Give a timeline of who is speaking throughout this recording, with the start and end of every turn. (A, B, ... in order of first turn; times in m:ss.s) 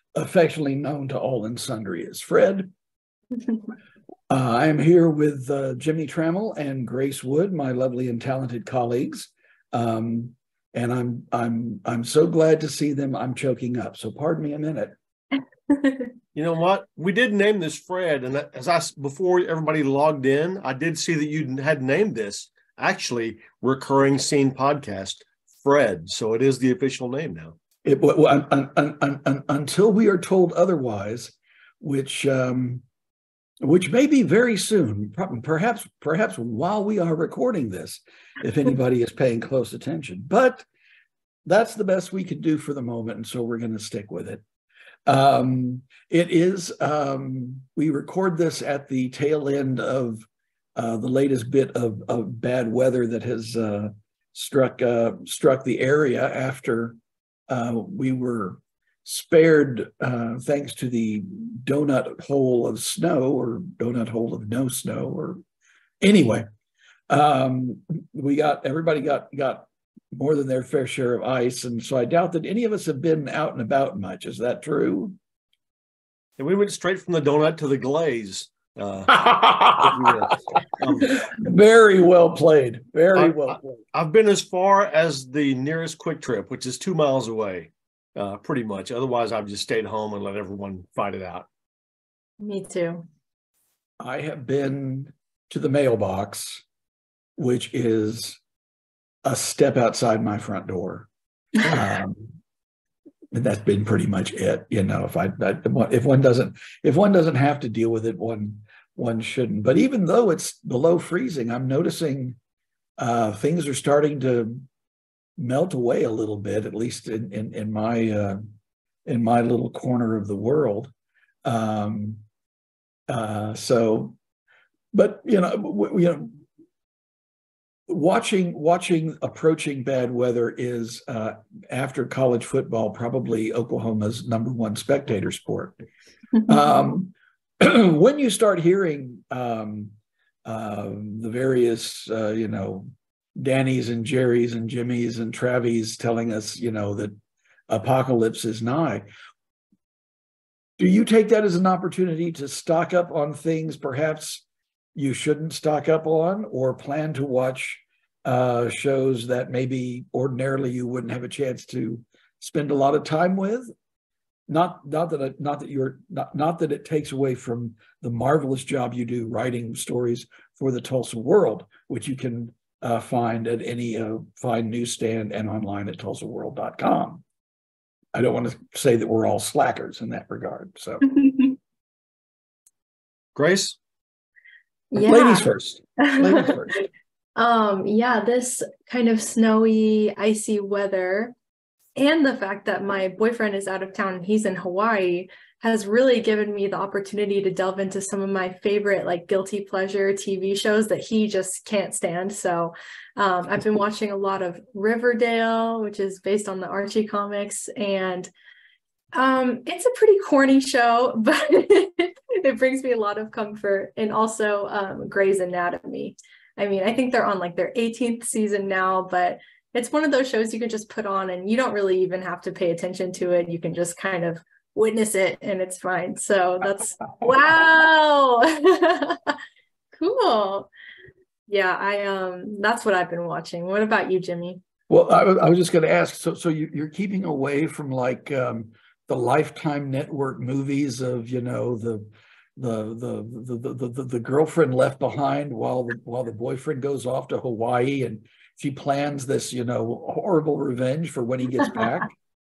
0:00.1-0:02.7 A
0:04.3-0:14.9 A
0:15.7-0:16.1 B
0:16.3-0:27.6 C
0:27.8-0:32.8 A
0:33.6-0:40.6 A
0:41.4-0:44.4 A
0:45.1-0:57.0 A
0:57.5-1:05.4 A
1:06.0-1:06.4 A
1:07.1-1:15.2 A
1:16.4-1:21.2 C
1:19.1-1:19.9 A
1:21.2-1:23.8 A
1:23.1-1:31.5 C
1:32.4-1:33.0 B
1:34.0-1:36.6 A
1:37.4-1:38.4 A
1:39.2-1:41.1 A
1:41.6-1:42.3 A
1:43.3-1:52.4 A
1:53.0-1:54.7 A
1:55.4-1:58.4 A
1:59.0-2:00.9 A
2:01.4-2:02.2 A
2:03.1-2:04.2 A
2:04.9-2:06.4 A
2:07.9-2:15.8 A
2:16.4-2:19.9 A
2:20.4-2:27.2 A
2:27.7-2:29.1 A
2:30.8-2:34.4 A
2:34.9-2:43.7 A
2:44.5-2:57.2 A
2:58.1-3:01.2 A
3:01.1-3:01.4 B
3:03.3-3:03.8 C
3:04.9-3:05.5 B
3:05.0-3:06.7 A
3:06.0-3:06.7 B
3:07.4-3:11.3 B
3:12.0-3:28.3 B
3:29.1-3:49.4 B
3:49.9-3:50.7 B
3:51.5-3:54.6 B
3:54.9-4:12.1 A